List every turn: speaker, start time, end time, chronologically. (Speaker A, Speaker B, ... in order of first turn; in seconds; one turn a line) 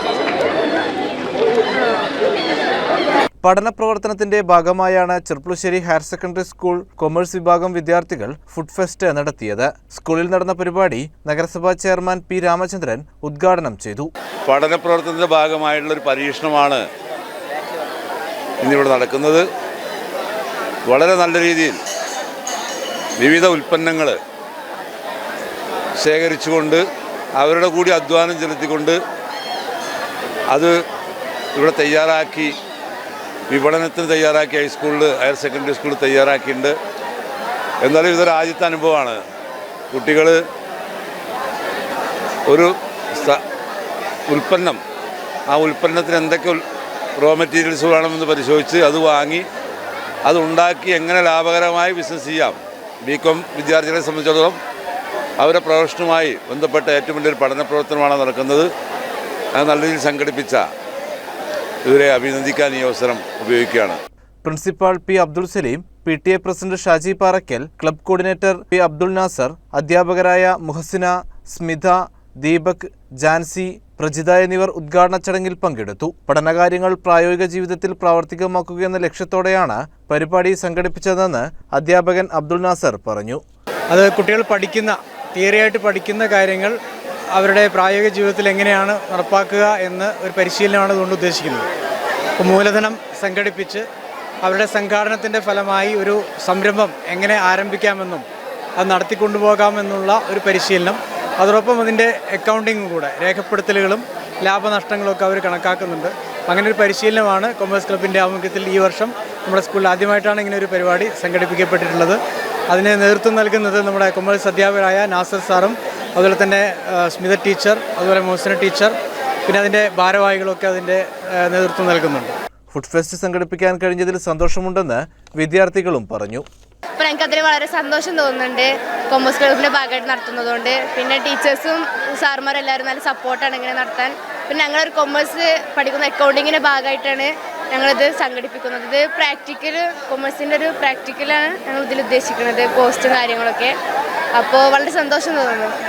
Speaker A: 3.4-14.1
Speaker B: 14.4-16.8
Speaker B: 18.6-19.4
Speaker B: 20.9-21.8
Speaker B: 23.2-24.2
Speaker B: 26.0-26.8
Speaker B: 27.4-29.0
Speaker B: 31.6-32.5
Speaker B: 33.5-36.7
Speaker B: 37.8-39.2
Speaker B: 39.9-40.4
Speaker B: 42.5-43.4
Speaker B: 44.3-44.8
Speaker B: 45.5-46.6
Speaker B: 47.2-49.5
Speaker B: 50.2-54.6
Speaker B: 55.4-58.7
Speaker B: 59.5-60.6
Speaker B: 61.9-64.0
Speaker A: 64.4-83.4
Speaker C: 83.9-86.8
Speaker C: 87.3-91.7
Speaker C: 92.4-93.9
Speaker C: 94.4-98.3
Speaker C: 98.8-119.0
Speaker C: 119.5-122.3
Speaker A: 122.7-126.5
Speaker D: 127.0-143.7
Speaker D: 144.3-145.7